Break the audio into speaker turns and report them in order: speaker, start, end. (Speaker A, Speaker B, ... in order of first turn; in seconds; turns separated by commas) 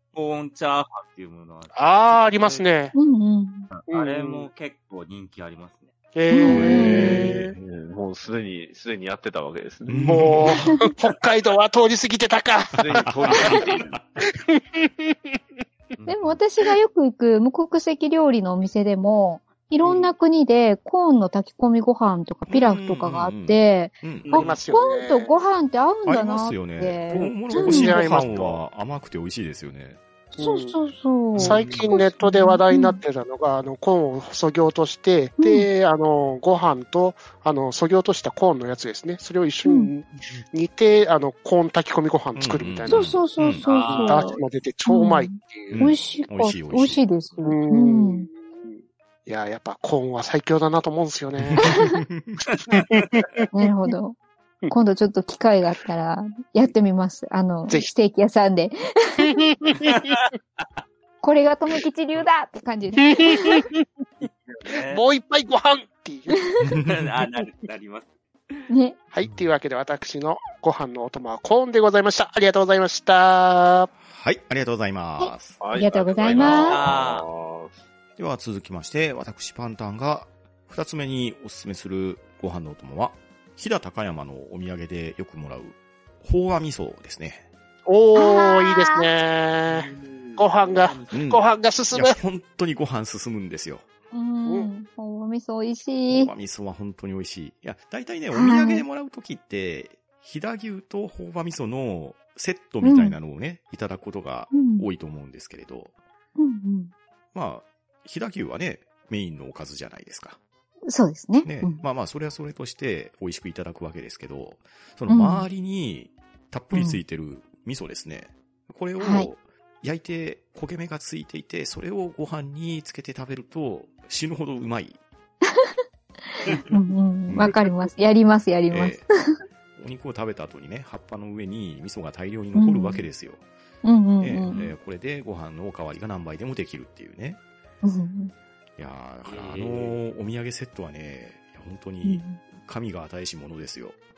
Speaker A: 0.1-2.7, Speaker B: 1.7-2.9, Speaker C: 2.9-3.7, Speaker A: 3.7-5.9, Speaker B: 3.9-4.5, Speaker B: 6.1-7.5, Speaker C: 6.3-7.2, Speaker D: 6.5-7.5, Speaker E: 6.5-10.2, Speaker D: 9.9-10.7, Speaker B: 10.1-13.6, Speaker E: 12.8-14.0, Speaker D: 13.0-14.0, Speaker B: 14.5-15.1, Speaker A: 15.9-16.4, Speaker C: 16.1-28.0, Speaker B: 19.8-20.1, Speaker D: 22.5-24.4, Speaker A: 24.2-24.6, Speaker B: 24.4-25.5, Speaker D: 26.1-30.0, Speaker B: 27.1-28.6, Speaker C: 30.4-33.0, Speaker B: 30.4-30.8, Speaker B: 31.4-43.2, Speaker C: 35.4-35.7, Speaker D: 42.4-43.6, Speaker C: 42.9-48.3, Speaker A: 43.6-44.5, Speaker B: 43.9-45.8, Speaker D: 45.7-47.1, Speaker B: 47.4-51.7, Speaker D: 51.4-52.4, Speaker C: 51.6-51.9, Speaker B: 52.7-53.4, Speaker C: 53.5-54.2, Speaker C: 54.7-59.3, Speaker B: 59.2-60.0, Speaker A: 59.8-60.8, Speaker C: 61.2-63.6, Speaker B: 63.1-63.9, Speaker A: 64.2-65.0, Speaker B: 64.8-66.4, Speaker D: 66.6-67.1, Speaker A: 66.8-68.6, Speaker C: 68.7-69.0, Speaker B: 69.1-73.9, Speaker A: 69.2-69.5, Speaker D: 74.0-75.6, Speaker C: 75.2-76.8, Speaker E: 75.6-77.8, Speaker A: 76.4-77.3, Speaker D: 78.2-87.4, Speaker B: 87.9-92.2, Speaker C: 88.2-89.1, Speaker A: 89.7-91.2, Speaker D: 91.1-93.8, Speaker C: 94.1-96.3, Speaker D: 96.1-105.9, Speaker C: 98.3-98.8, Speaker C: 102.8-103.2, Speaker C: 104.5-104.9, Speaker C: 106.4-106.9, Speaker D: 107.3-110.4, Speaker C: 110.9-111.8, Speaker D: 111.4-125.0, Speaker C: 115.1-115.5, Speaker C: 116.7-117.0, Speaker C: 119.0-119.3, Speaker C: 126.6-129.1, Speaker D: 127.3-127.6, Speaker D: 128.7-129.1, Speaker D: 129.8-133.4, Speaker C: 132.6-133.1, Speaker C: 133.8-134.6, Speaker D: 134.2-137.4, Speaker A: 134.5-134.8, Speaker C: 137.8-138.3, Speaker D: 138.8-143.9, Speaker A: 139.3-140.0, Speaker C: 142.0-142.4